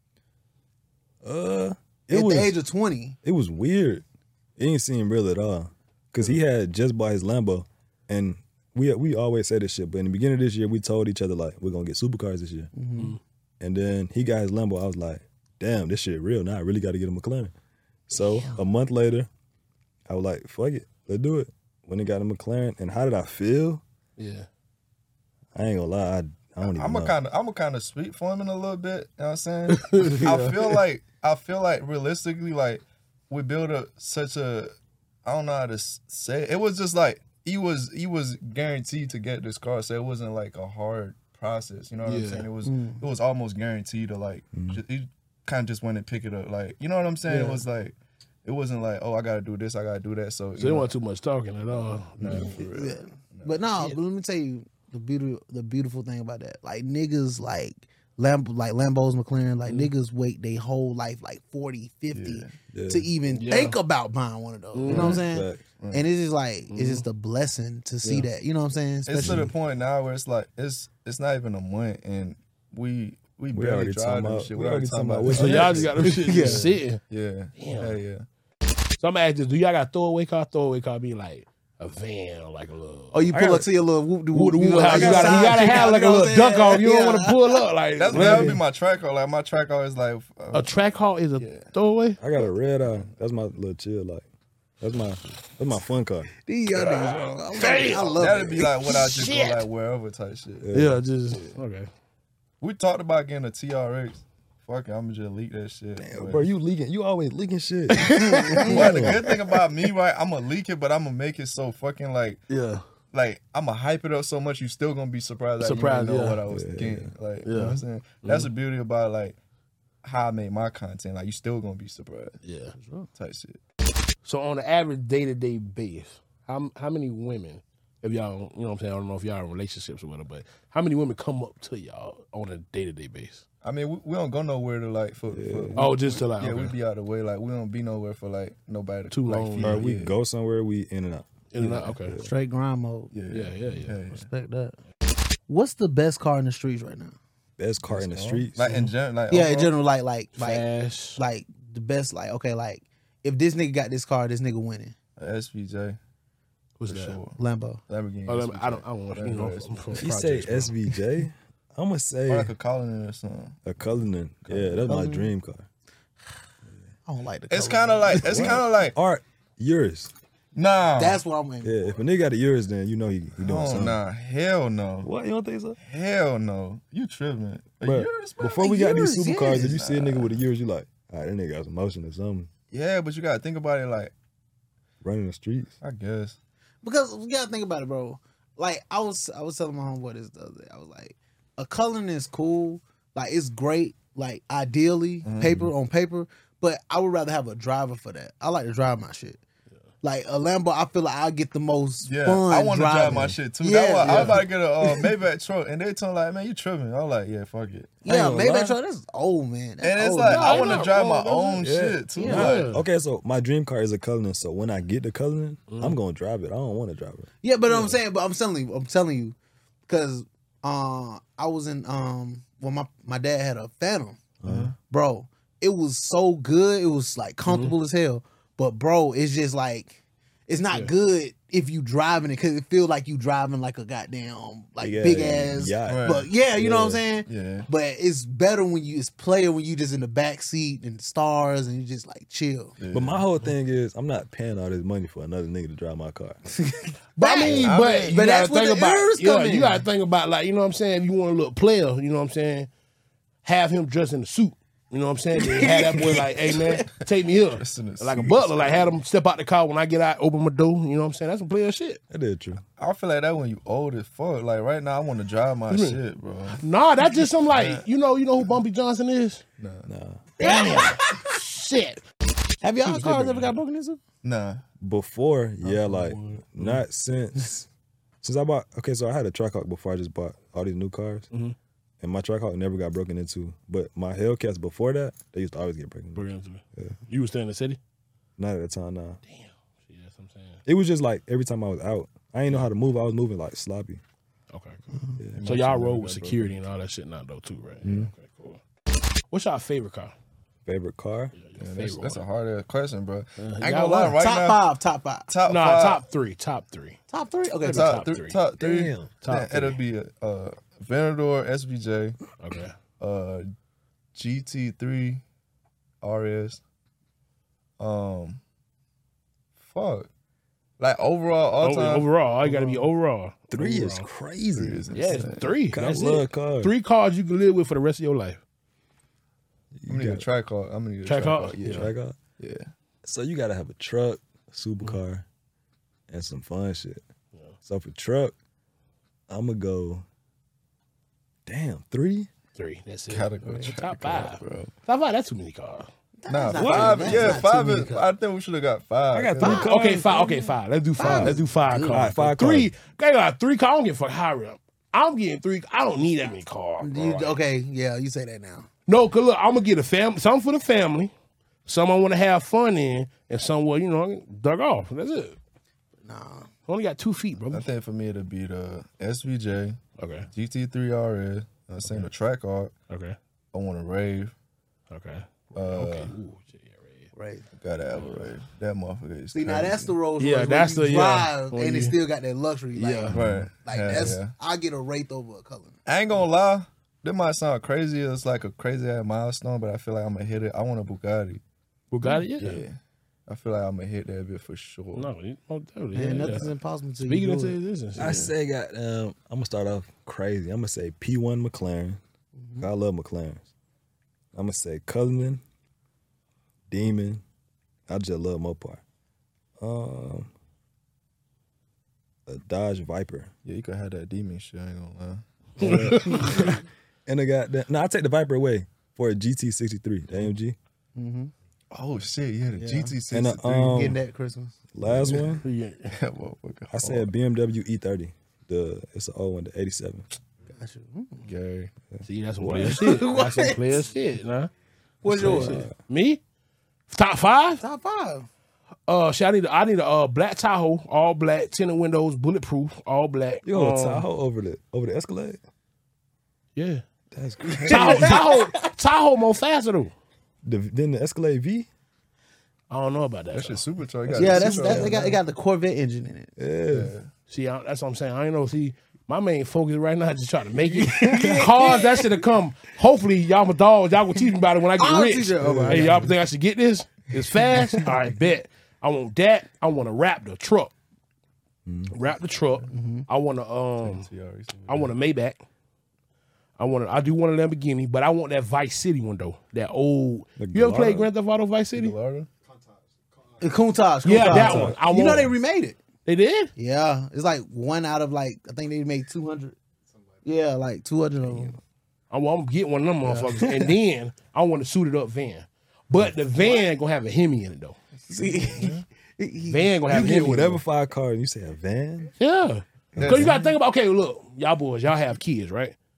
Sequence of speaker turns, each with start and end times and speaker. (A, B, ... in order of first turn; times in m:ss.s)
0:01.2-0:02.6 A
0:02.1-0:03.2 B
0:03.2-0:04.0 A
0:04.6-0:12.7 A
0:12.7-0:13.2 B
0:13.6-0:17.5 A
0:18.1-0:19.3 A
0:18.1-0:18.6 B
0:20.1-0:23.8 A
0:24.2-0:24.5 C
0:25.5-0:27.1 A
0:26.6-0:34.7 D
0:29.7-0:30.8 C
0:35.2-0:50.9 D
0:42.0-0:42.5 C
0:42.6-0:43.0 B
0:44.5-0:44.8 A
0:47.3-0:47.6 B
0:50.6-0:52.6 C
0:52.2-0:53.6 D
0:52.7-1:09.5 B
0:59.6-0:59.9 C
1:02.1-1:02.5 D
1:02.7-1:03.1 A
1:03.3-1:03.8 C
1:04.7-1:05.2 C
1:04.9-1:05.2 D
1:04.9-1:05.6 A
1:05.8-1:06.0 D
1:06.7-1:07.0 C
1:09.0-1:16.1 D
1:09.2-1:09.5 A
1:13.5-1:16.6 A
1:15.3-1:17.0 C
1:16.2-1:16.8 B
1:17.1-1:18.3 D
1:17.6-1:18.0 C
1:19.0-1:23.2 C
1:23.1-1:27.6 B
1:23.3-1:23.7 A
1:24.3-1:28.6 C
1:24.8-1:25.9 A
1:28.0-1:30.7 D
1:28.1-1:28.6 A
1:30.5-1:32.2 C
1:31.4-1:31.7 D
1:32.2-1:34.2 A
1:34.8-1:36.3 A
1:36.4-1:38.7 B
1:36.7-1:39.6 C
1:38.0-1:40.7 D
1:40.6-1:41.0 A
1:40.7-1:41.9 C
1:42.6-1:46.5 D
1:46.0-1:49.2 A
1:48.0-1:49.2 B
1:48.6-1:52.4 D
1:52.5-1:52.8 C
1:53.1-1:59.4 D
1:55.6-1:56.4 C
1:56.5-1:57.1 A
1:57.4-1:58.5 C
2:00.0-2:02.4 D
2:02.4-2:02.7 C
2:02.8-2:03.1 B
2:03.1-2:03.6 D
2:04.2-2:13.4 C
2:13.6-2:20.1 D
2:15.3-2:15.8 A
2:15.8-2:16.7 C
2:19.1-2:19.8 C
2:19.6-2:22.3 A
2:21.5-2:22.2 C
2:22.2-2:23.1 B
2:23.1-2:24.3 D
2:23.3-2:24.0 C
2:24.1-2:24.8 B
2:25.5-2:27.2 B
2:27.6-2:28.7 A
2:27.8-2:29.7 D
2:29.3-2:34.9 B
2:30.4-2:31.2 C
2:35.2-2:36.0 D
2:36.8-2:37.2 C
2:36.9-2:40.1 D
2:37.4-2:37.8 B
2:38.3-2:40.8 C
2:40.0-2:42.5 A
2:42.3-2:43.6 D
2:43.6-2:45.7 A
2:44.5-2:44.9 D
2:44.8-2:45.3 B
2:47.0-2:48.6 B
2:47.5-2:49.0 D
2:48.2-2:50.1 A
2:50.5-2:51.2 D
2:51.0-2:51.9 B
2:51.6-2:54.0 A
2:53.4-2:55.1 D
2:55.0-2:55.8 A
2:55.8-2:58.7 D
2:57.8-3:02.5 A
2:58.6-2:59.8 B
2:59.5-3:00.4 D
3:02.7-3:04.1 D
3:05.0-3:05.7 A
3:05.8-3:06.4 D
3:06.8-3:19.4 B
3:15.2-3:15.6 D
3:15.4-3:15.7 A
3:20.0-3:25.1 B
3:22.0-3:28.0 D
3:24.0-3:24.4 C
3:28.0-3:30.9 B
3:28.0-3:28.8 A
3:29.8-3:32.8 D
3:30.3-3:31.6 C
3:31.6-3:37.3 A
3:32.2-3:32.6 B
3:32.2-3:32.8 C
3:35.7-3:36.0 C
3:37.4-3:39.4 B
3:37.7-3:38.0 C
3:39.9-3:44.2 B
3:44.4-3:44.7 A
3:44.4-3:44.7 D
3:44.9-4:02.7 B
3:47.4-3:47.7 C
3:54.8-3:57.1 A
3:55.8-3:56.3 D
3:57.2-3:57.7 D
4:02.8-4:03.2 D
4:02.9-4:06.4 A
4:06.7-4:09.8 B
4:07.2-4:12.7 C
4:07.4-4:08.2 D
4:13.4-4:22.0 C
4:15.4-4:16.8 B
4:17.5-4:18.9 D
4:22.1-4:22.6 A
4:22.8-4:27.8 D
4:25.7-4:26.0 C
4:26.6-4:29.4 C
4:29.6-4:29.9 D
4:29.9-4:30.2 A
4:30.4-4:31.3 B
4:30.4-4:32.0 C
4:32.6-4:34.0 B
4:32.8-4:33.6 C
4:34.2-4:34.6 D
4:34.8-4:37.7 A
4:35.6-4:36.8 C
4:38.2-4:41.3 A
4:42.0-4:47.0 A
4:46.1-4:47.8 C
4:48.4-4:49.2 A
4:49.3-4:50.6 C
4:50.6-4:54.0 A
4:54.5-4:58.6 C
4:55.2-4:55.4 A
4:55.3-4:56.6 D
4:57.8-4:58.1 A
4:59.3-5:00.1 C
5:00.6-5:01.3 A
5:01.3-5:02.2 C
5:01.6-5:04.6 D
5:03.4-5:04.2 C
5:04.2-5:05.3 B
5:05.3-5:06.0 D
5:05.5-5:07.0 C
5:07.1-5:08.0 B
5:07.6-5:09.8 C
5:07.6-5:12.2 D
5:12.4-5:12.7 C
5:13.0-5:13.4 D
5:14.1-5:15.2 D
5:16.0-5:16.6 D
5:17.8-5:18.4 D
5:19.6-5:20.1 D
5:20.8-5:22.9 D
5:21.6-5:24.1 C
5:23.5-5:24.8 A
5:24.6-5:25.6 D
5:24.9-5:28.4 C
5:25.7-5:26.7 A
5:29.8-5:30.3 A
5:29.9-5:32.7 D
5:31.0-5:31.9 C
5:31.6-5:32.2 A
5:33.0-5:35.2 A
5:36.1-5:37.0 A
5:37.6-5:38.3 A
5:39.3-5:40.0 A
5:41.4-5:42.3 A
5:42.5-5:45.9 C
5:43.1-5:44.7 D
5:46.2-5:48.1 B
5:46.3-5:49.7 D
5:46.6-5:47.4 A
5:46.9-5:47.4 C
5:49.1-5:50.3 A
5:49.4-5:52.1 B
5:49.6-5:57.4 C
5:51.0-5:52.7 A
5:56.8-5:58.7 B
5:58.9-6:01.1 C
6:01.6-6:05.4 C
6:06.0-6:06.5 B
6:06.7-6:07.7 C
6:07.5-6:09.8 D
6:10.0-6:10.3 C
6:10.3-6:12.7 D
6:12.9-6:13.2 C
6:13.5-6:14.3 D
6:14.9-6:17.1 C
6:15.5-6:16.1 D
6:17.1-6:17.4 B
6:17.6-6:19.9 D
6:18.0-6:18.3 C
6:19.3-6:25.8 B
6:20.2-6:22.0 C
6:22.7-6:23.3 C
6:23.1-6:24.3 D
6:25.8-6:31.4 D
6:31.9-6:32.6 C
6:32.3-6:35.1 D
6:34.9-6:36.5 C
6:35.9-6:37.6 B
6:37.0-6:38.2 C
6:38.0-6:42.0 A
6:38.0-6:38.3 D
6:42.4-6:42.7 B
6:42.6-6:43.5 A
6:44.3-6:45.4 A
6:46.7-6:47.2 A
6:47.9-6:48.8 A
6:49.6-6:50.3 A
6:52.3-6:53.3 A
6:53.4-6:56.3 D
6:55.6-6:56.5 A
6:55.6-6:56.6 C
6:57.0-7:00.6 A
7:01.0-7:01.3 B
7:01.7-7:03.9 D
7:02.6-7:02.9 B
7:03.1-7:04.0 A
7:03.7-7:04.5 B
7:04.7-7:05.4 A
7:04.8-7:05.4 D
7:05.4-7:05.9 C
7:05.9-7:07.1 D
7:06.7-7:10.1 A
7:10.5-7:11.3 B
7:11.2-7:11.7 D
7:11.9-7:13.0 A
7:12.0-7:14.5 C
7:12.6-7:13.8 B
7:15.0-7:15.6 B
7:15.0-7:15.7 A
7:15.1-7:16.2 C
7:16.9-7:17.6 C
7:17.6-7:18.3 B
7:18.9-7:24.0 C
7:23.4-7:25.4 A
7:26.6-7:26.8 C
7:27.1-7:28.2 A
7:27.5-7:28.6 B
7:27.7-7:29.9 C
7:30.4-7:31.7 A
7:32.7-7:33.6 C
7:33.3-7:35.2 D
7:34.1-7:35.1 A
7:34.1-7:36.3 B
7:36.4-7:36.9 A
7:36.7-7:37.1 D
7:37.3-7:50.7 C
7:40.7-7:42.2 B
7:40.8-7:41.5 A
7:44.8-7:46.1 B
7:45.4-7:46.1 A
7:47.5-7:48.0 B
7:51.6-7:51.9 A
7:51.9-7:54.1 C
7:52.7-7:53.1 B
7:53.8-7:54.9 D
7:54.7-7:55.4 C
7:56.6-8:01.9 C
8:00.4-8:01.1 A
8:01.7-8:02.3 D
8:03.4-8:05.8 B
8:04.0-8:05.3 C
8:04.2-8:05.3 A
8:06.0-8:06.5 C
8:06.6-8:09.6 B
8:10.2-8:11.6 B
8:12.1-8:17.8 C
8:13.0-8:13.6 B
8:18.1-8:20.4 B
8:18.3-8:18.8 D
8:19.4-8:20.6 C
8:19.9-8:22.1 A
8:22.2-8:25.8 C
8:22.9-8:23.4 A
8:23.0-8:23.5 D